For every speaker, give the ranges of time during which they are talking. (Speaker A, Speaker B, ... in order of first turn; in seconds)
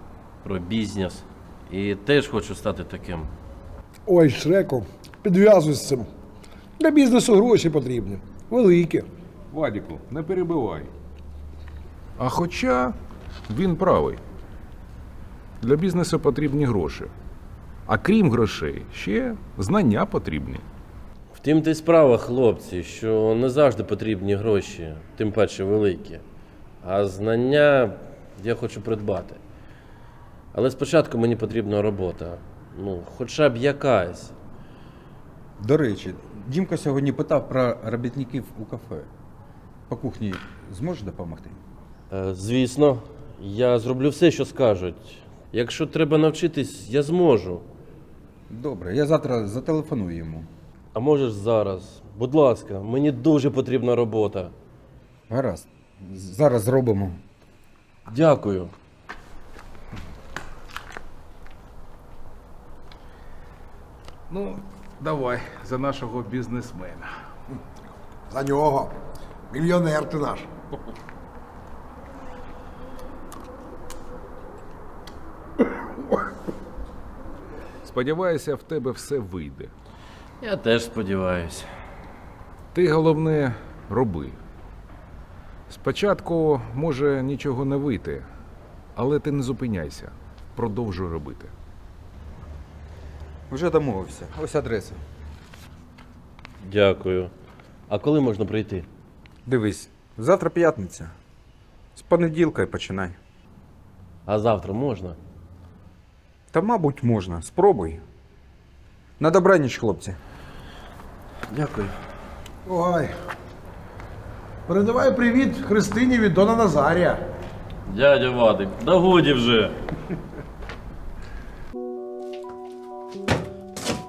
Speaker A: 0.4-3.3, 21.3-26.2, 26.8-29.4, 30.5-34.3, 42.1-47.6, 50.9-54.5, 58.1-58.7, 80.4-81.7, 96.6-97.3, 97.9-98.9, 104.3-105.2, 111.5-111.9, 117.9-119.8
Speaker B: 4.0-6.1, 6.8-9.1, 68.3-68.9, 69.5-70.5, 112.6-113.1, 114.7-117.2
Speaker C: 9.5-10.9, 12.2-12.9, 13.5-14.2, 15.6-17.1, 17.9-20.6, 64.3-67.1, 77.8-79.7, 82.7-84.4, 85.7-88.3, 89.0-91.5
Speaker D: 35.6-39.1, 39.9-41.6, 48.5-50.5, 55.3-57.2, 93.5-95.0, 99.5-101.1, 102.0-103.2, 106.5-108.0, 109.2-110.2